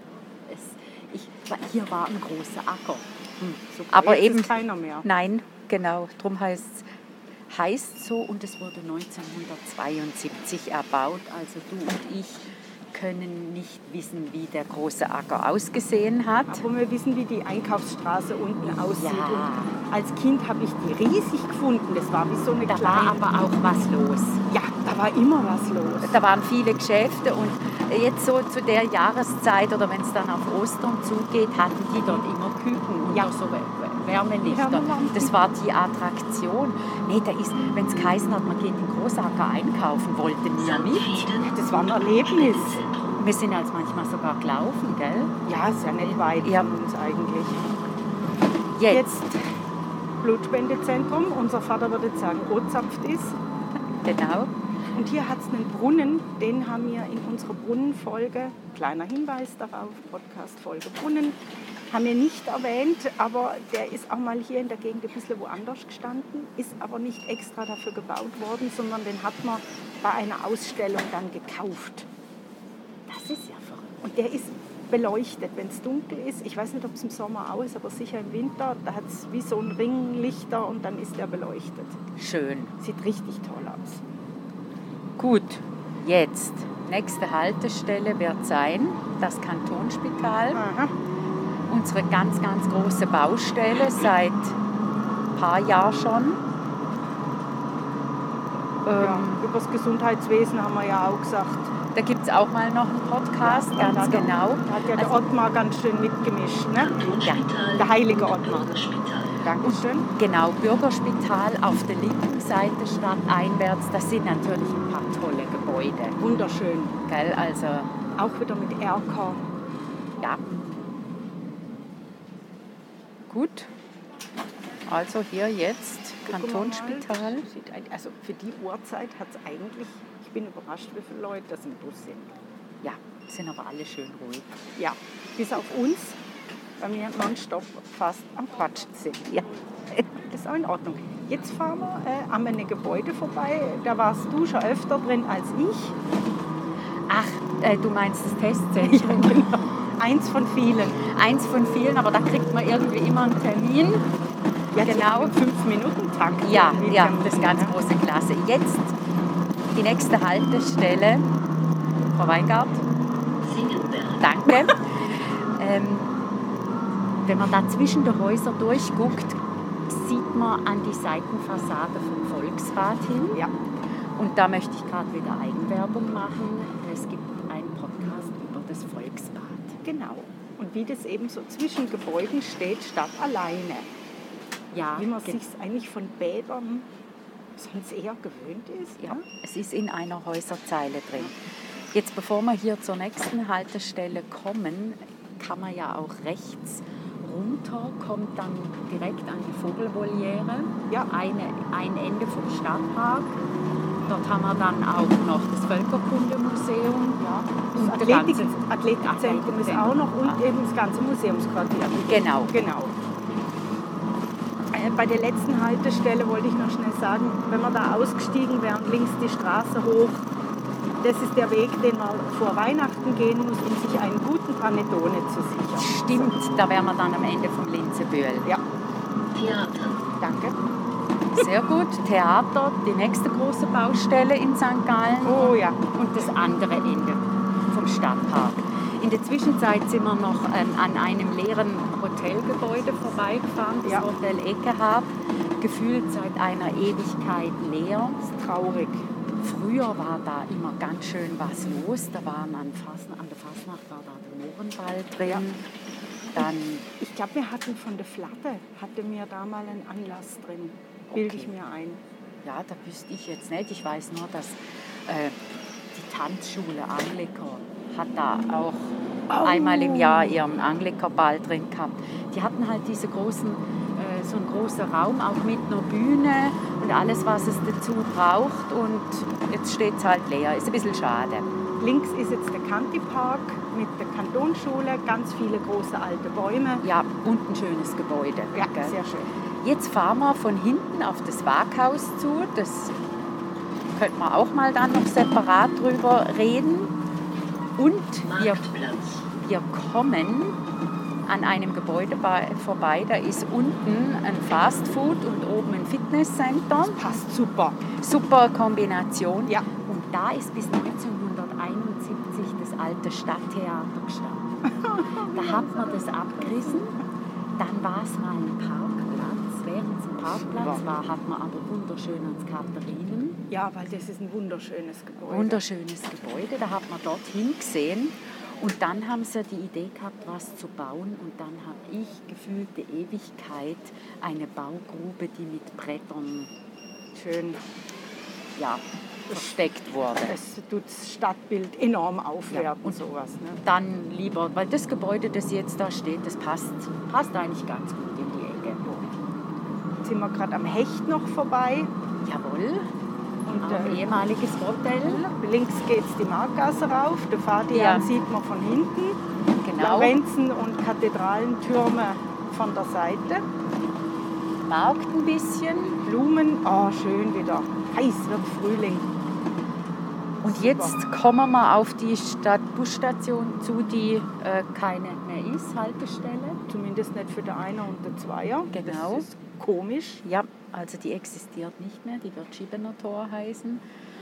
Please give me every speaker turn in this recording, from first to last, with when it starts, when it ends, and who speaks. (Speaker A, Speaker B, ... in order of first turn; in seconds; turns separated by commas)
Speaker A: 0.5-6.8, Speaker B: 3.7-5.0, Speaker A: 7.5-16.6, Speaker B: 16.5-23.6, Speaker A: 18.6-19.8, Speaker A: 22.7-24.4, Speaker B: 24.5-26.1, Speaker A: 26.0-41.3, Speaker B: 33.1-33.3, Speaker B: 34.4-35.4, Speaker C: 40.6-43.2, Speaker B: 41.4-42.7, Speaker A: 43.2-45.3, Speaker B: 45.4-47.6, Speaker A: 46.1-46.7, Speaker A: 48.8-49.1, Speaker B: 48.9-49.4, Speaker B: 50.2-53.4, Speaker A: 54.0-54.5, Speaker B: 54.9-61.4, Speaker B: 61.9-72.1, Speaker A: 73.1-74.0, Speaker B: 74.0-82.0, Speaker A: 82.2-82.7, Speaker B: 82.8-84.0, Speaker A: 85.2-90.6, Speaker B: 90.5-90.9, Speaker A: 91.7-94.6, Speaker A: 95.3-96.4, Speaker A: 98.8-99.4, Speaker B: 99.0-101.7, Speaker A: 101.9-105.2, Speaker B: 103.4-107.0, Speaker C: 106.8-109.4, Speaker A: 107.2-107.5, Speaker B: 107.7-108.8, Speaker B: 109.4-110.0, Speaker A: 109.6-116.2, Speaker B: 116.2-117.0, Speaker A: 117.1-117.9, Speaker B: 118.2-119.4, Speaker A: 123.3-123.7, Speaker A: 124.8-127.4, Speaker B: 126.3-132.3, Speaker A: 132.8-134.5, Speaker B: 134.8-136.2, Speaker B: 136.8-139.4, Speaker B: 140.0-146.0, Speaker A: 147.1-149.7, Speaker B: 148.8-151.0, Speaker A: 151.0-154.1, Speaker B: 154.7-157.8, Speaker A: 154.8-155.4, Speaker A: 156.4-158.9, Speaker A: 159.7-161.2, Speaker A: 162.1-162.8, Speaker C: 163.4-164.2, Speaker A: 164.2-164.8, Speaker A: 165.6-166.1, Speaker A: 167.2-173.4, Speaker A: 174.2-179.8, Speaker B: 179.8-183.9, Speaker A: 184.7-185.4, Speaker B: 184.9-186.9, Speaker B: 187.6-189.2, Speaker A: 189.0-191.3, Speaker A: 191.9-203.4, Speaker A: 204.1-210.4, Speaker B: 207.2-212.9, Speaker A: 211.9-212.5, Speaker B: 214.7-220.2, Speaker B: 221.0-226.3, Speaker A: 225.8-228.5, Speaker C: 229.3-230.0, Speaker B: 230.2-230.6, Speaker A: 231.3-248.3, Speaker B: 235.2-235.8, Speaker B: 248.4-249.0, Speaker A: 249.4-255.6, Speaker A: 256.3-256.9, Speaker B: 256.4-262.0, Speaker A: 261.1-261.5, Speaker A: 262.4-265.4, Speaker A: 265.9-281.5, Speaker B: 269.3-270.4, Speaker B: 281.8-286.8, Speaker A: 286.8-289.0, Speaker B: 288.5-289.3, Speaker A: 289.6-292.9, Speaker A: 293.9-296.9, Speaker A: 297.8-298.6, Speaker C: 298.2-299.2, Speaker A: 299.3-300.6, Speaker A: 301.2-307.0, Speaker B: 307.0-307.8, Speaker A: 307.9-314.5, Speaker B: 314.8-316.6, Speaker A: 315.3-317.0, Speaker A: 317.6-323.4, Speaker B: 320.3-320.8, Speaker B: 323.5-325.6, Speaker A: 325.2-336.5, Speaker B: 337.1-337.6, Speaker A: 338.6-340.4, Speaker B: 340.2-343.6, Speaker A: 342.5-343.0, Speaker A: 343.6-348.8, Speaker B: 350.0-351.9, Speaker A: 352.2-352.9, Speaker B: 353.4-354.2, Speaker A: 353.6-355.2, Speaker B: 354.9-359.2, Speaker A: 357.7-358.1, Speaker A: 359.6-360.2, Speaker B: 359.8-363.4, Speaker A: 364.6-366.0, Speaker B: 366.0-369.1, Speaker A: 370.4-376.6, Speaker B: 370.4-371.0, Speaker B: 376.7-380.2, Speaker A: 378.7-379.3, Speaker A: 380.2-383.8